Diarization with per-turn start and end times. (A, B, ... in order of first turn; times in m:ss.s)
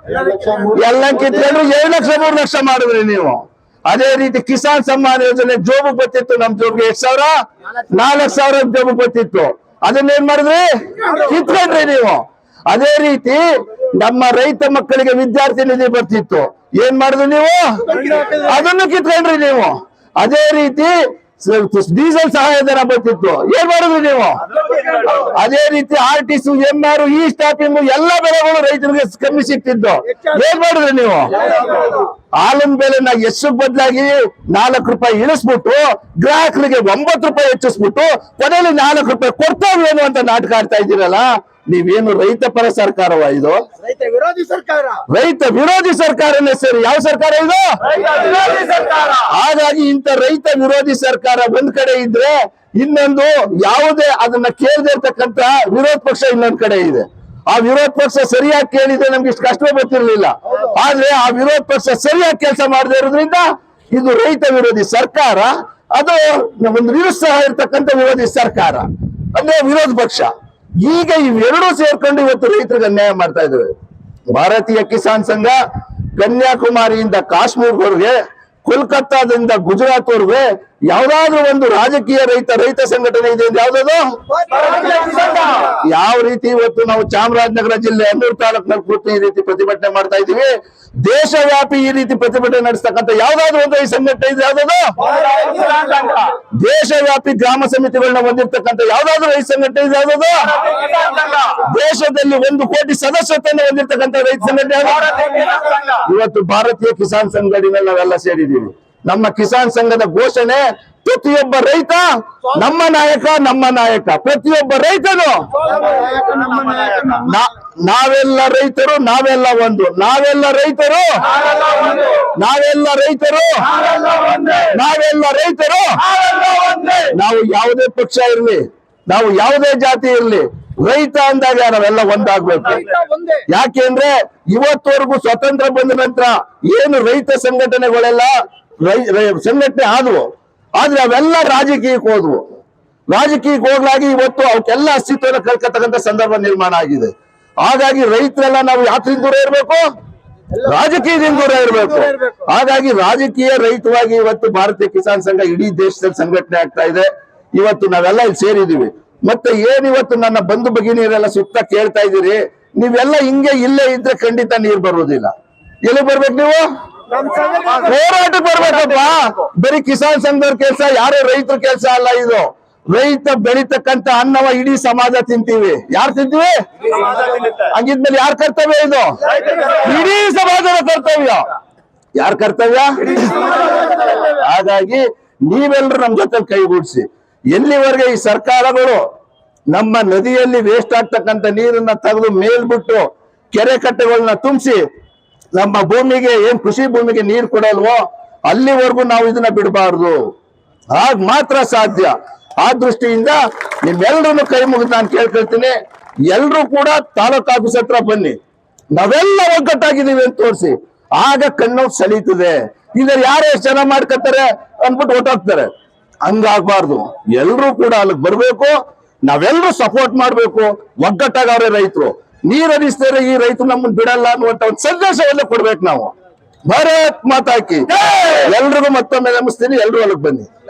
0:00.1-0:00.8 A
0:00.7-0:43.6 B
0:17.9-0:18.4 A
0:24.6-0:25.1 A
0:31.4-0:32.0 A
0:43.8-0:45.0 A
0:45.1-0:48.4 B
0:48.0-0:49.1 A
0:49.0-1:10.3 B
1:10.8-1:13.7 B
1:14.3-1:15.6 B
1:16.2-1:24.0 B
1:24.5-1:25.6 A
1:25.3-1:30.5 B
1:31.0-1:35.1 B
1:35.1-1:36.1 A
1:35.8-1:55.6 B
1:40.9-1:41.2 A
1:55.6-1:57.2 A
1:57.0-2:01.1 B
2:01.4-2:02.2 A
2:02.2-2:03.7 B
2:03.8-2:04.6 A
2:04.6-2:06.0 B
2:06.1-2:07.0 A
2:07.0-2:12.9 B
2:12.8-2:13.4 A
2:13.5-2:22.4 B
2:23.1-2:27.1 B
2:27.6-2:29.8 B
2:30.6-2:45.3 B
2:45.8-2:46.7 B
2:47.1-2:47.8 A
2:47.7-3:01.5 B
2:57.0-2:57.5 A
3:02.2-3:09.0 B
3:09.7-3:14.8 B
3:15.5-3:20.2 B
3:20.9-3:25.8 B
3:26.3-3:28.4 B
3:28.9-3:35.7 B
3:36.2-3:46.1 B
3:46.7-3:50.5 B